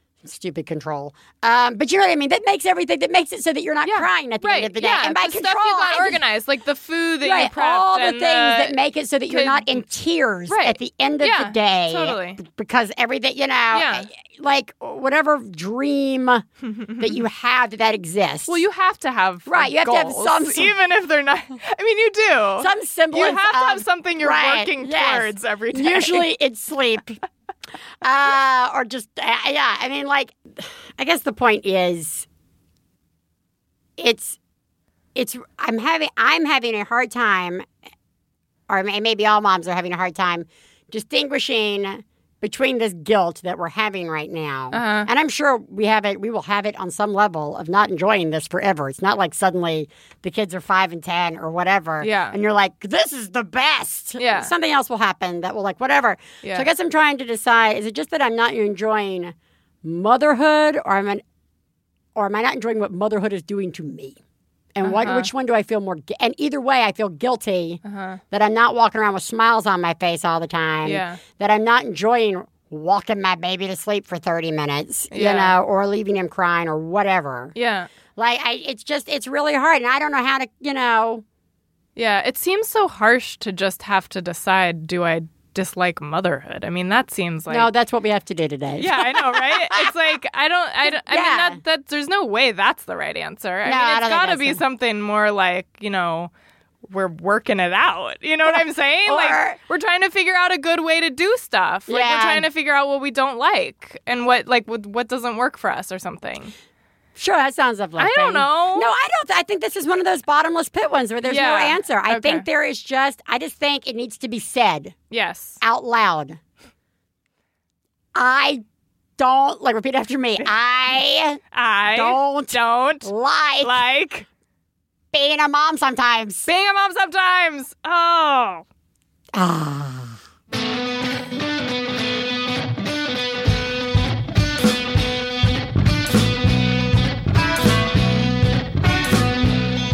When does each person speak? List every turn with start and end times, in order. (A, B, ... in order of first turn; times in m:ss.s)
0:00.2-0:06.2 A
0:03.8-0:08.8 B
0:07.2-0:16.4 A
0:09.3-0:09.8 B
0:10.5-0:12.4 B
0:13.7-0:14.1 B
0:16.6-0:17.2 B
0:17.0-0:18.6 A
0:18.5-0:26.3 B
0:19.4-0:20.7 A
0:22.6-0:27.2 A
0:28.0-0:32.2 A
0:34.0-0:34.4 A
0:35.1-0:37.6 A
0:38.7-1:01.2 A
0:44.7-0:45.1 B
0:52.0-0:52.4 B
0:54.2-0:54.5 B
0:56.4-0:56.7 B
1:02.2-1:04.2 A
1:04.7-1:17.5 A
1:04.8-1:05.3 B
1:07.8-1:08.2 B
1:10.8-1:11.2 B
1:15.1-1:15.6 B
1:17.5-1:17.9 B
1:18.2-1:21.2 A
1:22.0-1:27.7 B
1:27.5-1:29.9 A
1:28.8-1:36.3 B
1:30.8-1:31.6 A
1:33.6-1:34.6 A
1:36.8-1:46.5 B
1:38.4-1:39.6 A
1:41.9-1:42.5 A
1:47.2-1:54.9 A
1:48.0-1:48.9 B
1:51.2-1:52.4 B
1:55.1-1:55.6 B
1:55.6-1:56.4 A
1:58.1-1:58.6 A
1:59.2-2:03.8 A
2:01.5-2:04.2 B
2:05.1-2:06.5 A
2:06.4-2:08.6 B
2:09.3-2:10.2 A